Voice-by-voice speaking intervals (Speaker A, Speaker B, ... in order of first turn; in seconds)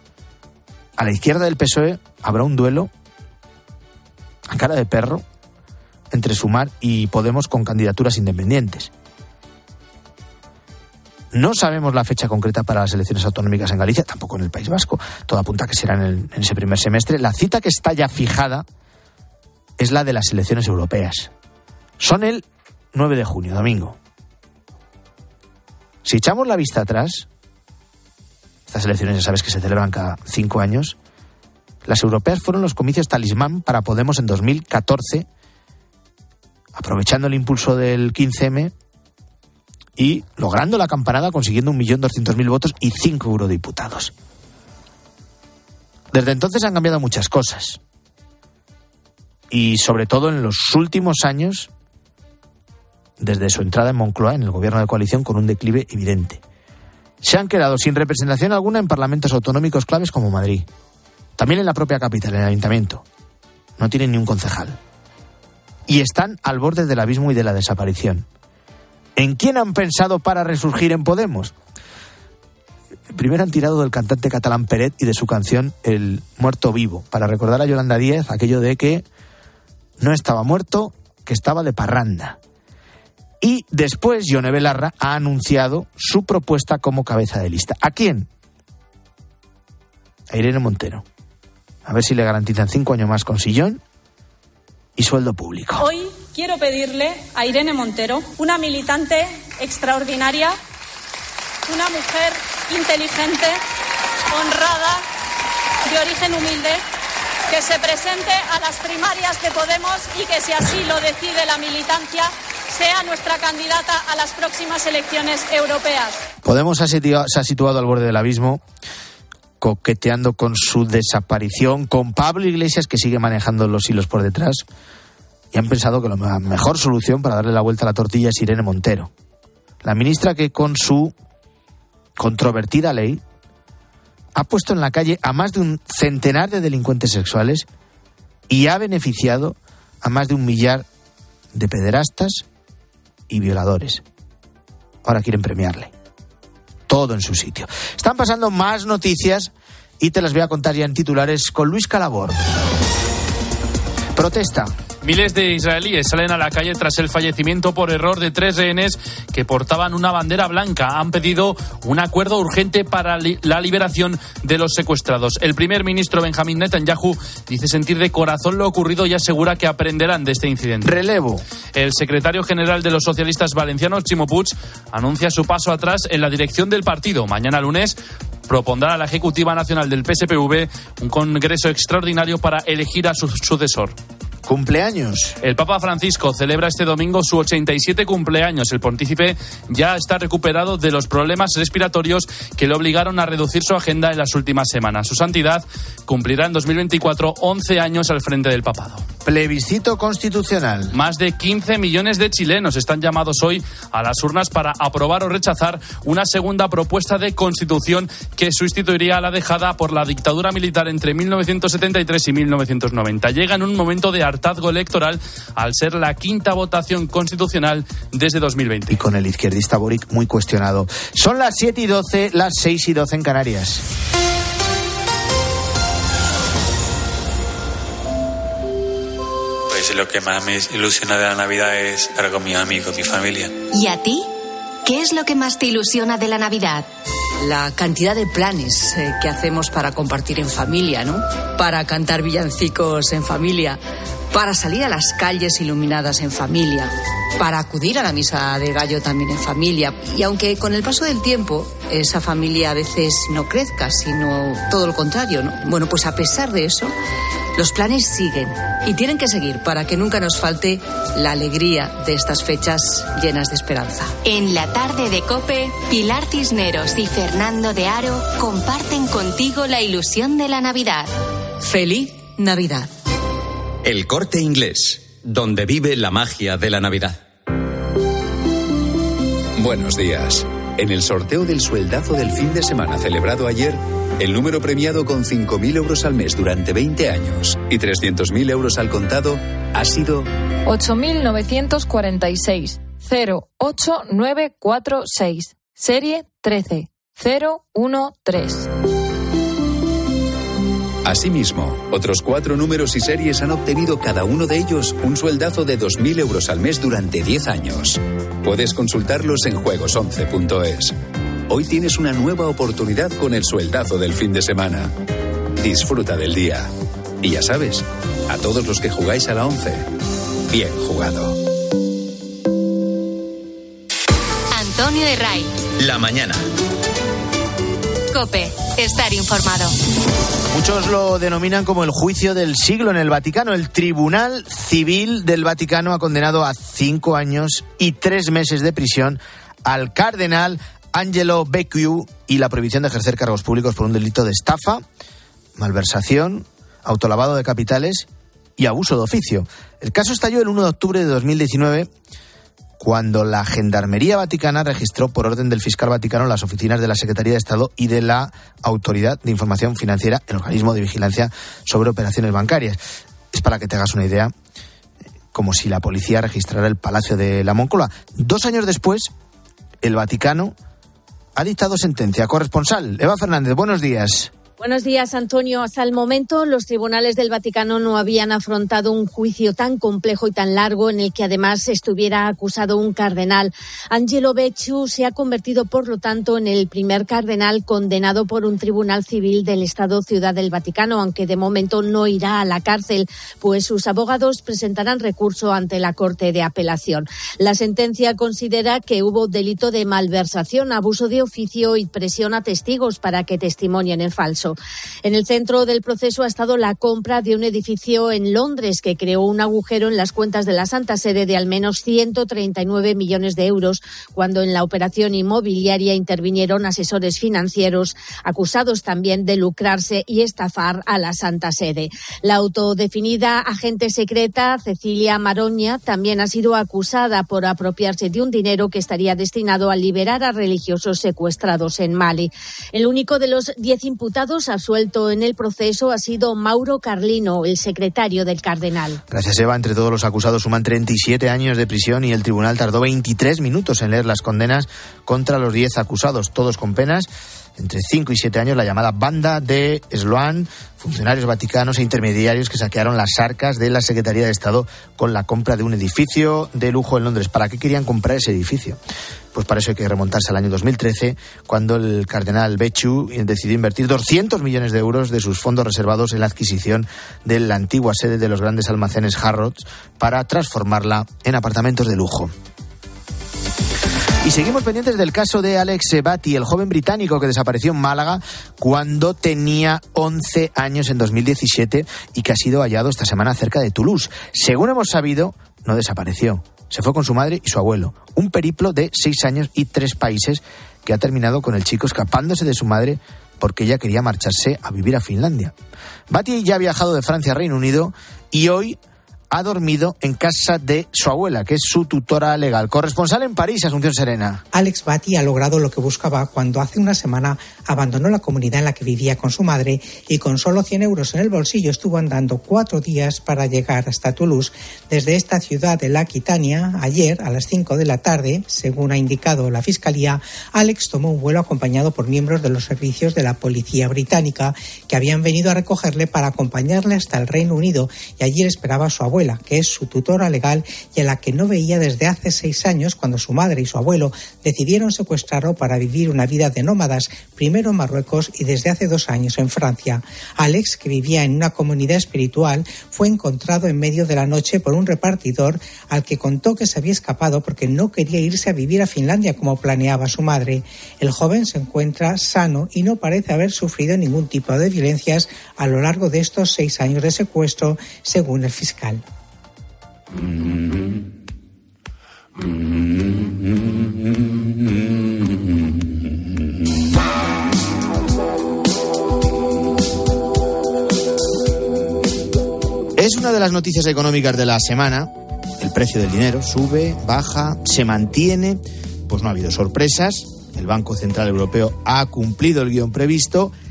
Speaker A: 1.0-2.9, 4.5-5.2, 6.1-8.9, 11.3-18.6, 19.8-21.3, 22.0-24.0, 26.0-27.3, 28.7-31.0, 31.9-35.3, 36.8-38.7, 40.0-44.1, 46.1-47.8, 49.5-51.7, 53.2-56.4, 57.2-60.7, 61.4-63.0, 63.8-64.8, 65.9-68.3, 69.2-71.5, 73.1-79.0, 80.0-82.4, 83.4-88.3, 90.3-91.0, 91.9-93.8, 95.0-95.9, 116.4-118.6, 119.6-124.6, 125.5-129.1, 129.8-131.1, 132.2-133.2, 134.4-137.7, 138.5-140.9, 141.5-142.4, 143.3-144.0, 145.1-145.9, 146.9-152.4, 154.2-154.7, 170.8-171.4, 184.5-185.4, 199.2-200.9, 218.9-223.8, 330.5-344.8, 345.6-351.9, 352.8-362.8, 363.3-364.3, 365.3-369.1, 369.8-370.6, 371.4-374.3, 439.1-458.8, 459.3-472.3, 474.2-495.5, 496.1-498.8, 499.3-504.4, 573.0-583.5
Speaker B: 95.8-100.5, 101.7-103.6, 104.3-105.0, 105.8-106.8, 107.5-116.2
Speaker C: 155.0-170.9, 171.7-178.0, 178.5-184.0, 185.4-199.0, 200.9-219.0
Speaker D: 229.7-233.5
Speaker E: 233.7-234.3, 234.8-236.9, 264.2-271.1, 324.5-325.5, 328.1-329.8
Speaker F: 237.4-243.8, 244.3-256.9, 257.6-264.1, 271.6-272.9
Speaker G: 273.8-277.2, 325.8-326.4
Speaker H: 279.6-290.3, 301.1-311.0, 311.5-314.9, 315.6-319.9, 320.5-321.4
Speaker I: 290.7-298.7
Speaker J: 374.6-439.0
Speaker K: 504.5-559.0